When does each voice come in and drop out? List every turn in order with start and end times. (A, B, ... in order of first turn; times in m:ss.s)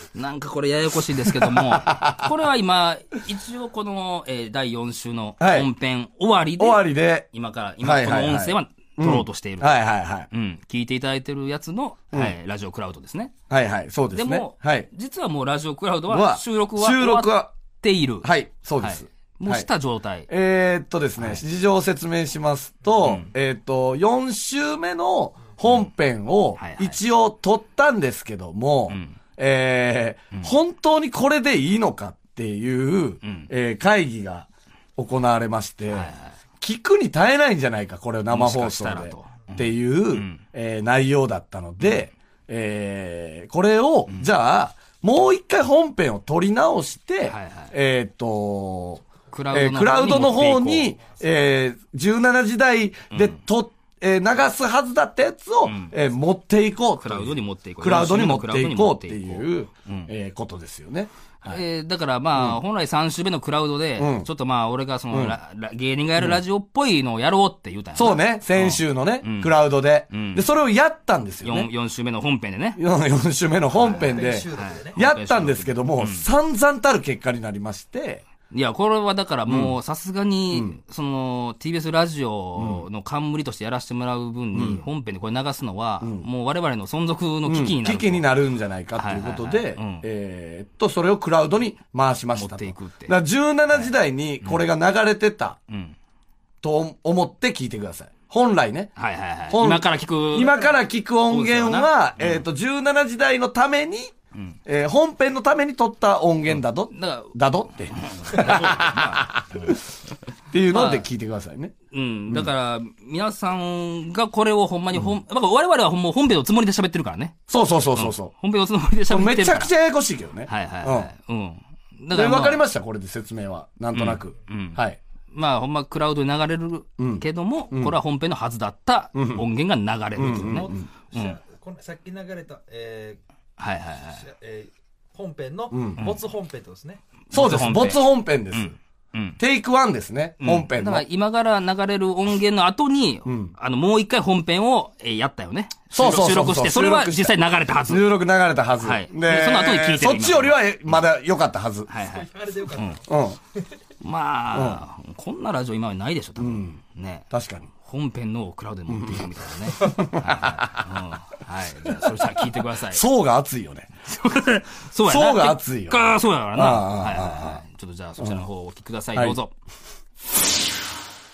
0:00.1-0:09.8 A
0:01.2-0:02.3 B
0:05.4-0:05.7 B
0:06.6-0:07.3 B
0:07.8-0:10.3 B
0:10.3-0:13.3 A
0:13.5-0:14.9 B
0:14.1-0:20.3 A
0:16.1-0:17.5 B
0:18.2-0:19.7 B
0:20.3-1:01.6 B
0:21.2-0:21.4 A
0:26.6-0:27.0 A
0:28.9-0:29.2 A
0:33.2-0:33.5 A
0:35.9-0:36.4 A
0:38.3-0:40.4 A
0:47.3-0:47.7 A
0:49.3-0:51.0 A
0:55.6-0:55.9 A
0:57.0-1:00.1 A
1:01.4-1:09.6 A
1:04.0-1:04.3 B
1:05.1-1:05.4 B
1:08.0-1:11.7 B
1:10.1-1:10.4 A
1:11.4-1:12.8 A
1:12.8-1:18.2 B
1:13.8-1:15.0 C
1:13.8-1:16.3 A
1:18.5-1:28.3 A
1:19.5-1:19.7 B
1:20.5-1:20.8 B
1:22.6-1:22.8 B
1:24.5-1:24.8 B
1:27.4-1:35.6 B
1:29.0-1:30.0 A
1:32.4-1:33.2 A
1:35.7-1:36.0 A
1:36.6-1:38.9 B
1:39.0-1:40.7 A
1:39.5-1:44.1 B
1:41.3-1:42.4 A
1:44.7-1:49.8 B
1:46.9-1:47.4 A
1:47.9-1:49.8 A
1:50.5-1:51.7 B
1:50.7-1:51.1 A
1:51.9-1:57.4 A
1:57.5-1:58.3 B
1:58.0-1:59.7 A
1:59.1-2:01.1 B
2:00.5-2:02.6 A
2:02.1-2:05.0 B
2:03.9-2:04.8 A
2:05.3-2:11.4 A
2:07.0-2:08.0 B
2:09.2-2:09.4 B
2:10.2-2:10.9 B
2:10.3-2:13.2 C
2:13.6-2:14.2 A
2:14.2-2:17.0 C
2:15.7-2:16.0 B
2:17.3-2:19.4 A
2:17.3-2:18.7 B
2:19.4-2:21.0 B
2:20.4-2:28.1 A
2:23.3-2:23.5 B
2:25.9-2:27.4 B
2:27.9-2:31.9 B
2:28.8-2:30.6 A
2:31.9-2:33.0 A
2:32.0-2:33.1 C
2:33.1-2:33.4 B
2:34.0-2:43.0 A
2:34.5-2:34.8 B
2:36.4-2:36.8 B
2:37.3-2:37.7 B
2:38.9-2:40.9 B
2:42.9-2:43.9 B
2:44.1-2:49.5 A
2:45.0-2:47.6 B